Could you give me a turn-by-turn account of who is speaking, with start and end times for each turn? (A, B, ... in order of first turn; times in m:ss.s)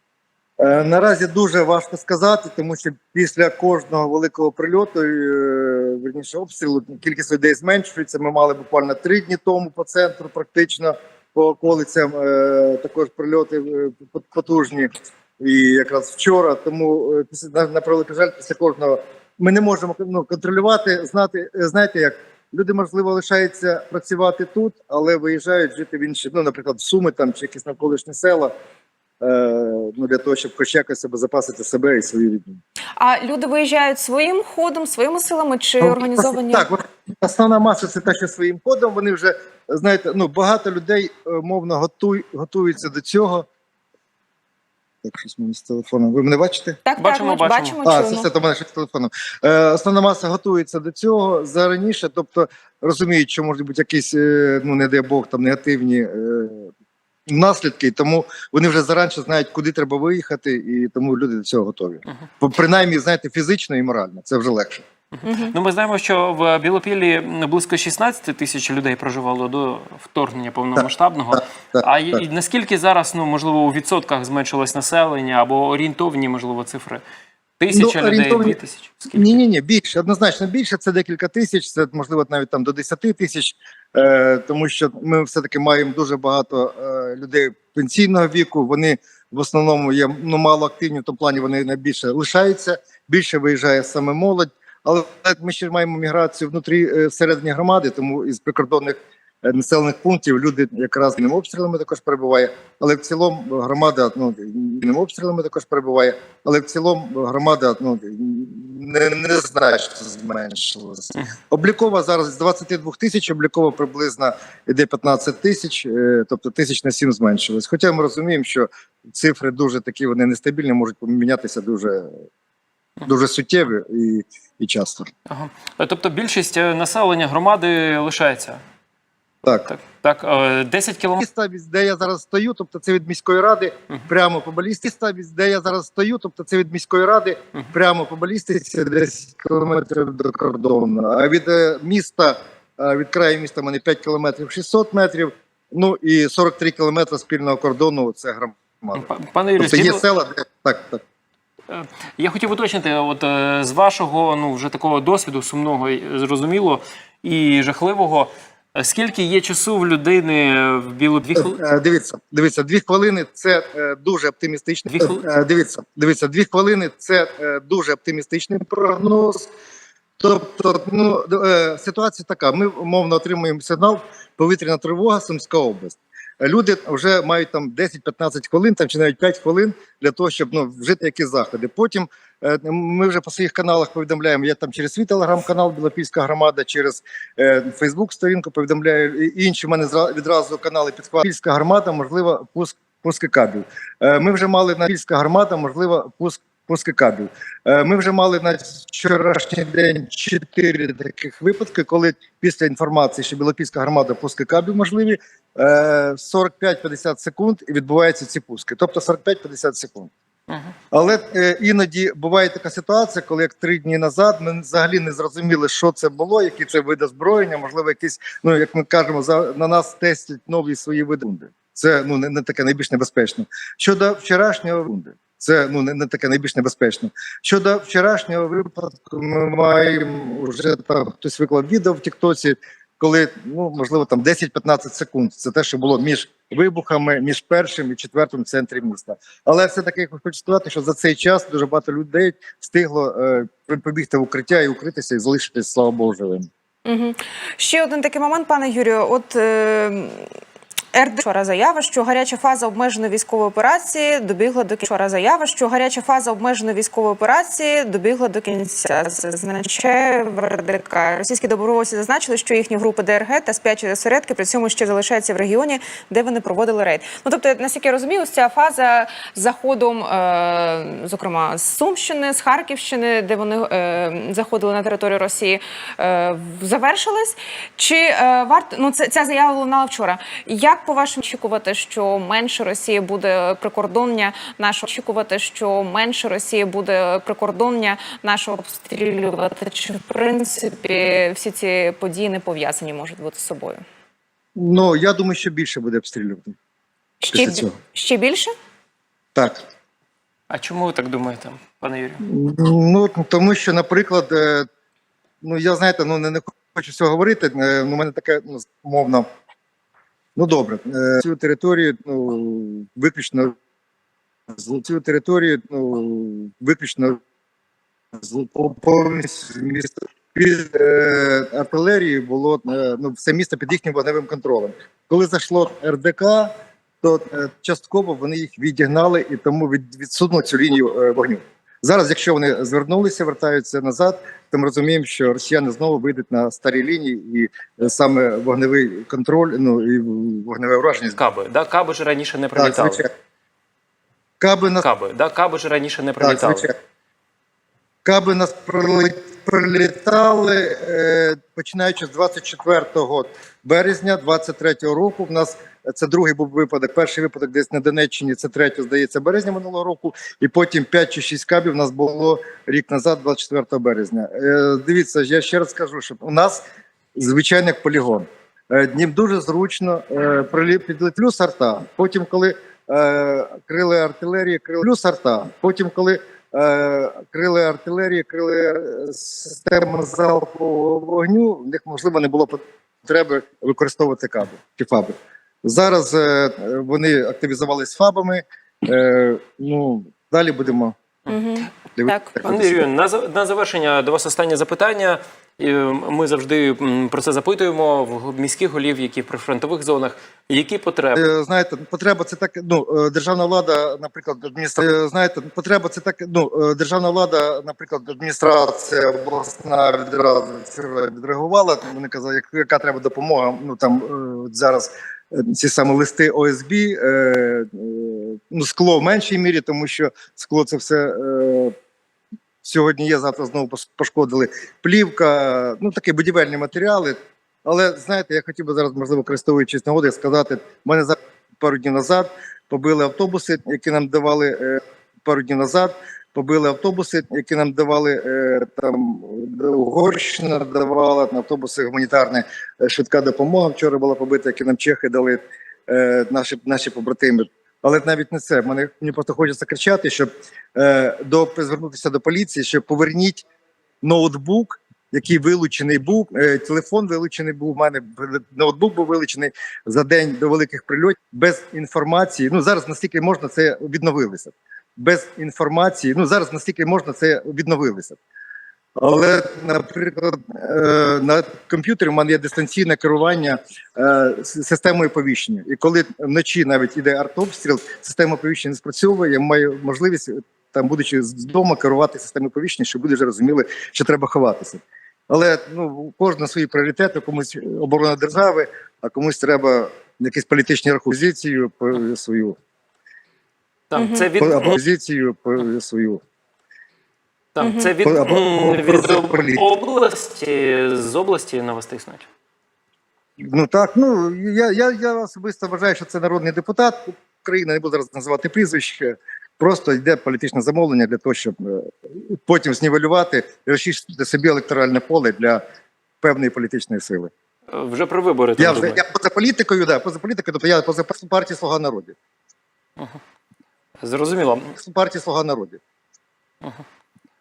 0:00.6-0:28.5 A
0:29.2-0:32.6 A
0:33.0-0:36.7 B
0:35.8-0:43.5 A
0:45.0-0:46.8 A
0:46.9-0:48.3 B
0:47.0-0:47.8 C
0:47.8-0:56.7 A
0:57.3-1:04.8 A
1:05.2-1:17.0 C
1:05.2-1:05.5 B
1:10.8-1:12.2 A
1:17.6-1:19.4 C
1:17.7-1:18.6 A
1:19.1-2:02.2 A
2:03.0-2:05.1 A
2:05.3-2:08.6 C
2:09.4-2:09.7 A
2:09.7-2:11.2 C
2:11.2-2:31.0 A
2:28.9-2:30.0 C
2:31.7-2:41.6 C
2:41.4-2:49.5 A
2:44.9-2:45.2 C
2:50.2-3:30.1 A
3:30.9-4:06.5 A
4:06.9-4:10.3 B
4:10.9-4:53.8 B
4:54.6-4:56.6 A
4:57.2-4:58.5 B
4:57.3-4:57.8 A
4:59.4-4:59.6 A
5:00.5-5:02.2 C
5:02.2-5:04.7 A
5:05.4-5:09.3 A
5:10.4-5:13.6 A
5:14.5-5:17.2 A
5:18.1-5:26.5 A
5:27.0-5:41.2 A
5:41.1-5:43.0 C
5:42.6-5:43.1 A
5:44.4-5:44.9 A
5:44.8-5:46.7 C
5:46.2-5:46.8 A
5:48.0-6:06.6 A
6:07.2-6:31.0 A
6:31.3-6:32.3 B
6:32.0-6:32.8 A
6:32.4-6:41.2 C
6:41.2-7:01.7 A
7:02.6-7:33.4 A
7:34.0-7:48.2 A
7:49.0-8:12.6 A
8:13.9-8:14.8 C
8:14.0-8:14.3 B
8:14.4-8:16.2 A
8:17.6-8:22.3 C
8:17.6-8:17.9 B
8:18.0-8:19.6 A
8:23.4-8:35.6 A
8:36.2-8:37.3 A
8:37.7-8:39.0 C
8:38.6-8:42.2 A
8:44.0-8:44.7 C
8:44.8-8:45.8 A